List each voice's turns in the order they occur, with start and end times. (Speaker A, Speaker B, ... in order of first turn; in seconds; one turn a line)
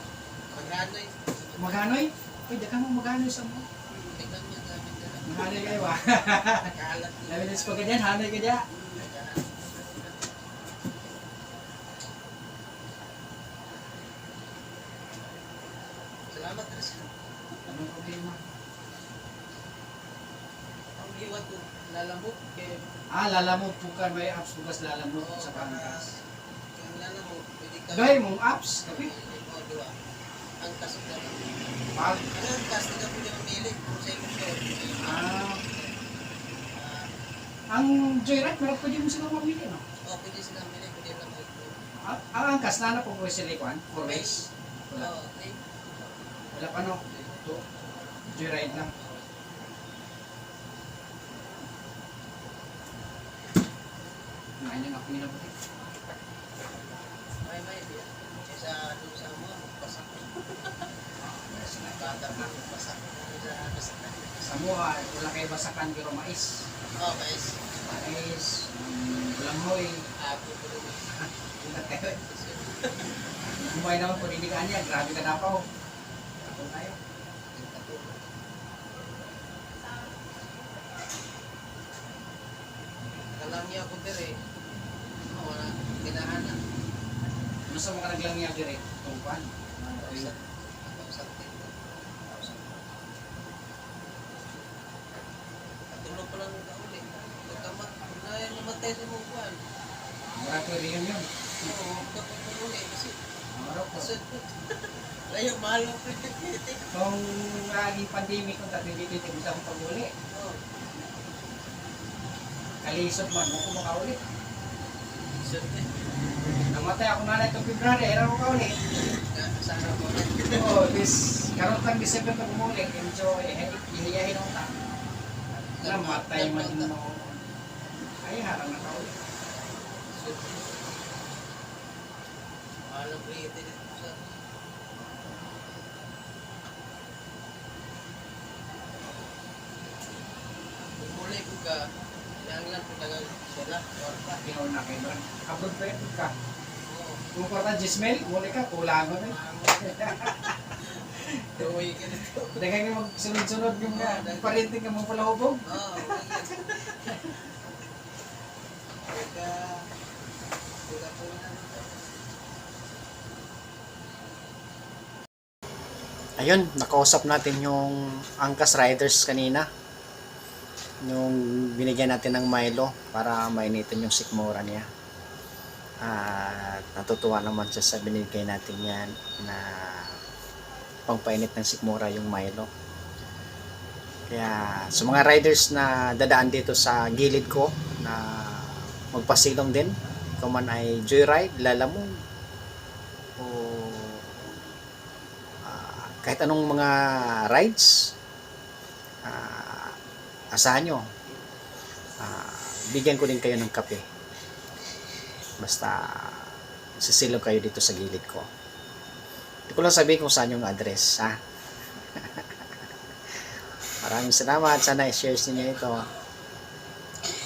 Speaker A: 0.5-2.1
Speaker B: 1.6-3.6
Speaker A: 3.9-8.1
Speaker B: 5.2-6.7
Speaker B: 7.3-8.6
Speaker A: 8.7-10.2
Speaker A: 16.3-17.1
Speaker B: 17.7-18.4
Speaker A: 21.0-22.8
Speaker B: 23.1-26.0
Speaker A: 25.2-26.2
Speaker A: 26.7-28.2
Speaker B: 27.9-29.1
Speaker A: 28.9-29.9
Speaker A: 30.6-31.5
Speaker B: 31.9-32.2
Speaker A: 32.3-36.0
Speaker B: 35.0-35.6
Speaker A: 36.7-37.1
Speaker B: 37.7-39.8
Speaker A: 40.0-41.8
Speaker B: 42.0-45.1
Speaker A: 43.9-44.5
Speaker A: 45.0-45.6
Speaker B: 46.5-47.5
Speaker A: 47.0-47.5
Speaker B: 48.3-48.9
Speaker A: 48.8-49.3
Speaker B: 54.6-55.5
Speaker A: 57.4-60.8
Speaker B: 61.5-62.5
Speaker C: 61.6-61.9
Speaker A: 62.0-64.3
Speaker C: 64.7-66.3
Speaker B: 65.3-66.5
Speaker A: 67.0-67.6
Speaker C: 68.0-68.4
Speaker B: 68.3-69.6
Speaker C: 69.3-69.9
Speaker A: 70.2-73.0
Speaker B: 71.6-72.1
Speaker C: 73.6-75.4
Speaker B: 74.5-75.5
Speaker B: 76.5-76.9
Speaker C: 76.5-76.9
Speaker A: 77.5-78.2
Speaker A: 83.3-84.4
Speaker A: 85.3-86.6
Speaker B: 87.7-90.3
Speaker C: 87.8-88.5
Speaker A: 90.0-92.8
Speaker A: 95.9-99.6
Speaker B: 100.3-101.2
Speaker C: 100.6-101.0
Speaker A: 101.6-103.2
Speaker B: 103.5-104.1
Speaker A: 103.9-106.9
Speaker B: 106.9-110.1
Speaker A: 110.3-110.6
Speaker B: 112.8-114.2
Speaker A: 115.4-115.9
Speaker B: 116.7-118.7
Speaker A: 119.2-120.8
Speaker B: 120.5-124.7
Speaker A: 125.7-126.9
Speaker B: 125.8-127.4
Speaker B: 128.2-129.1
Speaker A: 130.1-130.8
Speaker A: 132.9-134.2
Speaker A: 141.0-141.8
Speaker A: 142.4-144.4
Speaker B: 144.4-146.3
Speaker A: 146.8-147.2
Speaker B: 147.3-150.5
Speaker A: 149.2-152.7
Speaker B: 152.5-156.0
Speaker A: 153.9-154.7
Speaker A: 155.6-157.4
Speaker A: 159.1-159.8
Speaker A: 160.9-162.0
Speaker C: 166.4-169.7
Speaker C: 171.0-174.8
Speaker C: 176.0-180.2
Speaker B: 178.0-178.3
Speaker C: 181.1-182.7
Speaker C: 184.3-189.8
Speaker B: 187.2-187.5
Speaker B: 189.2-189.9
Speaker C: 190.4-192.0
Speaker B: 190.4-192.0
Speaker C: 193.4-194.4
Speaker B: 193.5-194.1
Speaker C: 195.6-197.8
Speaker B: 196.4-196.9
Speaker C: 199.2-199.9
Speaker C: 200.6-201.0
Speaker B: 200.7-201.0
Speaker C: 202.2-204.0
Speaker B: 202.4-203.8
Speaker C: 205.6-208.5
Speaker C: 209.7-211.4
Speaker B: 210.0-210.3
Speaker C: 212.2-212.4
Speaker C: 214.0-216.1